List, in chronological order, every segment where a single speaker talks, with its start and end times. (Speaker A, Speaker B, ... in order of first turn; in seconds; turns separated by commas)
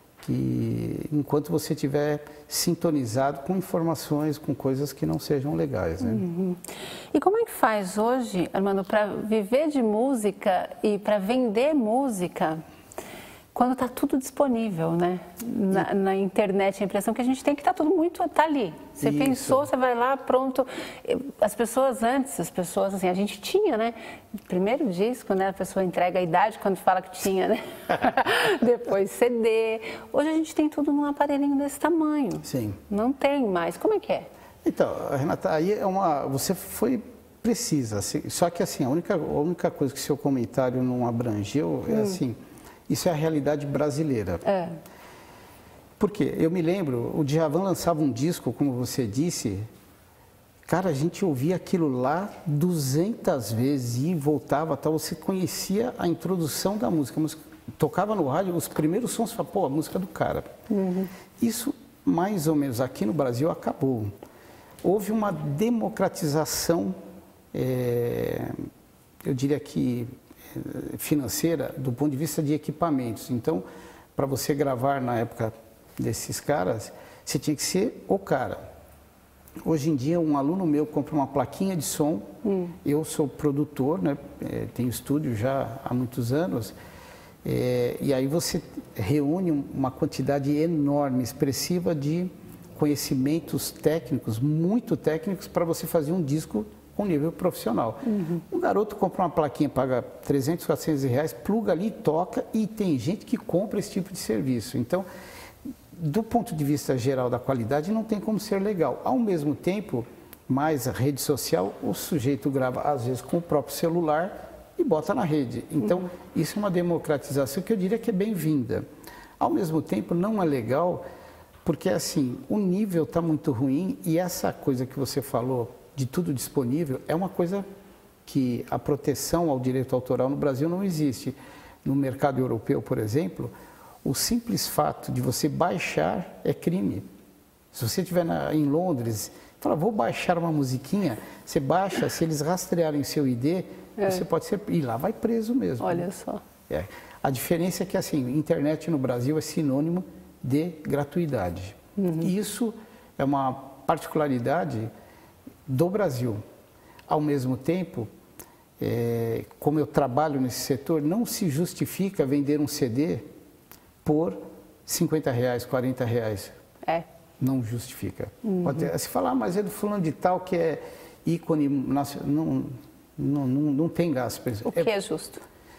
Speaker A: 0.2-6.2, Speaker B: 6.0-12.6, Speaker B: 13.5-34.3, Speaker A: 19.0-19.7, Speaker A: 32.4-32.8, Speaker A: 34.6-44.4, Speaker B: 41.9-42.2, Speaker B: 44.5-44.8, Speaker A: 46.0-49.7, Speaker A: 50.7-60.5, Speaker B: 60.7-61.1, Speaker A: 61.4-64.1, Speaker A: 64.8-67.0, Speaker A: 67.5-68.6, Speaker A: 69.2-73.6, Speaker A: 74.2-78.6, Speaker A: 79.6-82.3, Speaker B: 82.4-82.8, Speaker A: 82.8-86.8, Speaker A: 87.4-105.1, Speaker B: 98.1-98.4, Speaker A: 105.9-118.8, Speaker A: 119.4-121.0, Speaker A: 121.7-127.7, Speaker A: 128.2-133.5, Speaker A: 134.0-137.1, Speaker A: 137.7-146.1, Speaker B: 145.8-146.4, Speaker A: 146.7-154.9, Speaker B: 152.0-152.3, Speaker A: 155.7-156.4, Speaker A: 157.1-158.1, Speaker A: 158.8-163.3, Speaker A: 164.0-166.6, Speaker A: 167.4-174.9, Speaker B: 168.4-168.8, Speaker B: 174.7-175.4